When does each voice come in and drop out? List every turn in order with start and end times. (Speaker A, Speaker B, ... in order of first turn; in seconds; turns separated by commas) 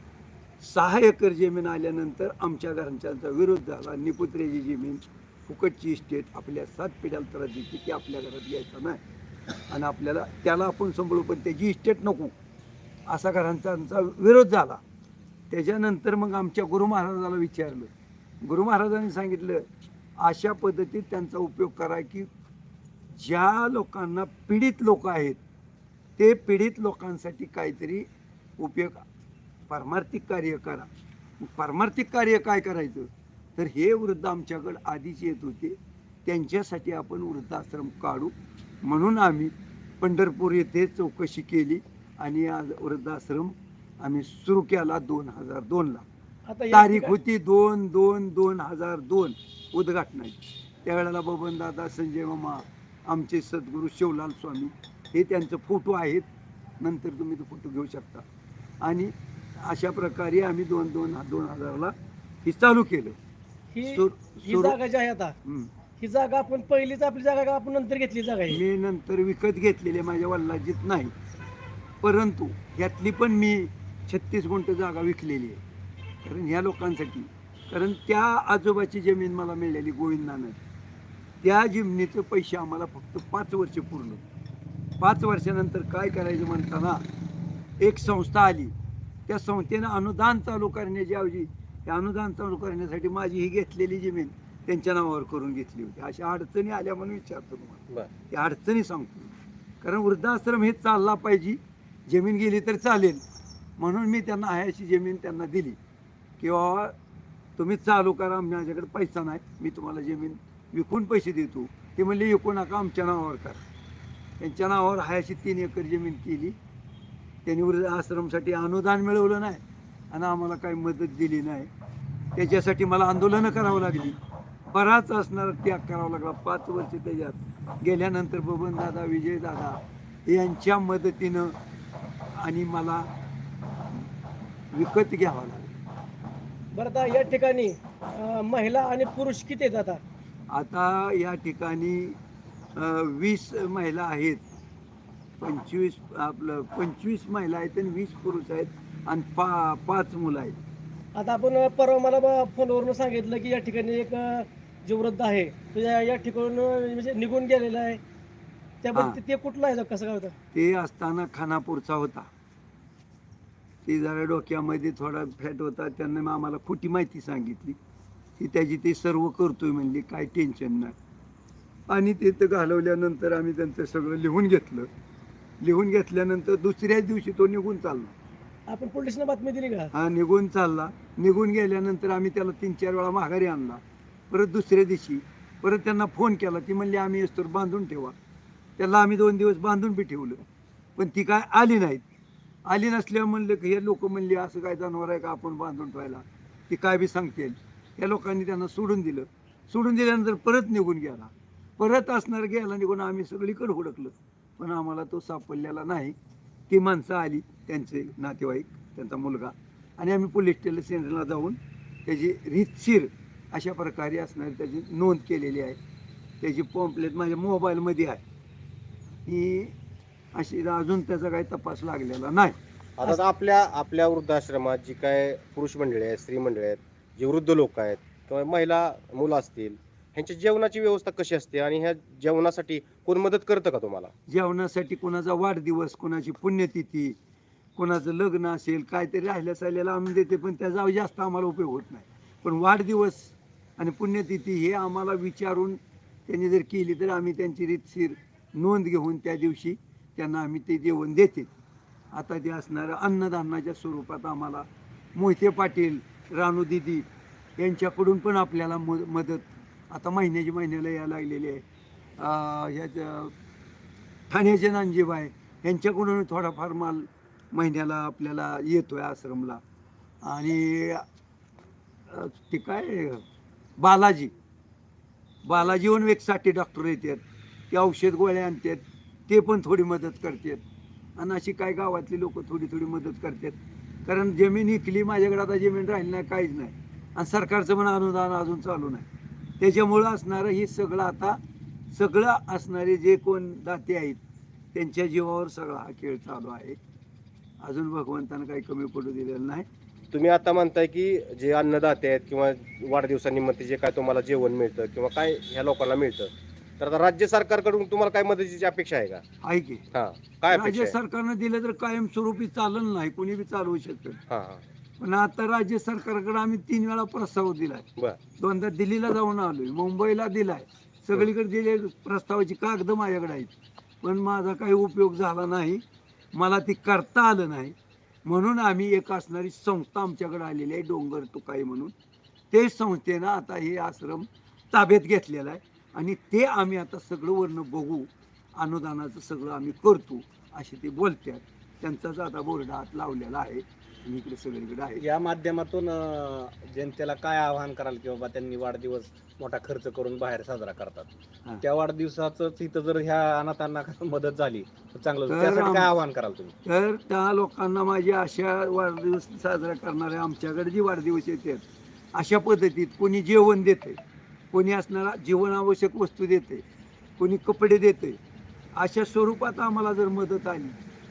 Speaker A: 0.6-9.0, Speaker A: 9.7-12.3, Speaker A: 13.1-14.8, Speaker A: 15.5-17.9, Speaker A: 18.4-19.6, Speaker A: 20.2-22.3, Speaker A: 23.1-25.4, Speaker A: 26.2-28.1, Speaker A: 28.6-29.0, Speaker A: 29.7-30.9, Speaker A: 31.4-38.3, Speaker A: 38.8-46.0, Speaker B: 46.5-46.9, Speaker A: 46.7-56.3, Speaker A: 56.8-58.2, Speaker A: 58.8-61.9, Speaker A: 62.4-63.2, Speaker B: 63.8-64.0, Speaker A: 63.8-64.8, Speaker B: 64.6-65.3, Speaker A: 65.4-65.7, Speaker B: 66.0-68.6, Speaker A: 68.5-71.1, Speaker A: 72.0-75.6, Speaker A: 76.2-80.6, Speaker A: 81.4-84.2, Speaker A: 85.0-87.0, Speaker A: 87.8-88.7, Speaker A: 89.3-103.2, Speaker A: 103.8-105.8, Speaker A: 106.4-106.9, Speaker A: 107.6-113.6, Speaker A: 114.4-116.5, Speaker A: 117.5-119.6, Speaker A: 120.1-121.7, Speaker A: 122.3-124.2, Speaker A: 124.7-131.5, Speaker A: 132.4-133.1, Speaker A: 134.7-135.7, Speaker B: 136.8-140.0, Speaker A: 140.5-142.2, Speaker A: 142.8-144.4, Speaker A: 145.4-150.6, Speaker B: 151.2-158.0, Speaker B: 158.8-160.3, Speaker A: 158.9-159.2, Speaker A: 160.5-162.3, Speaker A: 163.8-167.8, Speaker A: 168.4-170.9, Speaker A: 171.9-174.9, Speaker A: 175.6-178.1, Speaker B: 178.7-179.9, Speaker A: 179.9-188.1, Speaker A: 188.8-190.4, Speaker A: 191.0-192.0, Speaker A: 192.7-206.1, Speaker A: 206.7-215.8, Speaker A: 216.4-218.2, Speaker A: 219.2-219.7, Speaker A: 220.3-222.6, Speaker C: 223.0-234.1, Speaker A: 234.3-237.2, Speaker A: 237.8-251.5, Speaker A: 252.1-257.1, Speaker A: 257.6-261.6, Speaker A: 262.2-263.3, Speaker A: 264.3-269.6, Speaker A: 270.2-271.0, Speaker A: 272.1-273.2, Speaker A: 273.8-274.3, Speaker A: 275.4-280.6, Speaker A: 281.2-289.1, Speaker A: 289.6-291.4, Speaker A: 291.9-294.2, Speaker A: 294.7-296.8, Speaker A: 297.6-299.6, Speaker C: 300.1-309.2, Speaker A: 309.4-309.8, Speaker C: 309.9-310.9, Speaker A: 310.5-314.2, Speaker C: 314.3-314.6, Speaker A: 315.0-317.9, Speaker A: 318.4-325.8, Speaker A: 326.3-327.7, Speaker A: 328.2-331.9, Speaker A: 332.5-345.0, Speaker D: 345.0-351.1, Speaker D: 351.6-356.5, Speaker A: 355.3-355.9, Speaker A: 356.6-361.6, Speaker A: 362.1-364.0, Speaker A: 364.5-366.6, Speaker A: 367.2-368.2, Speaker A: 368.8-370.7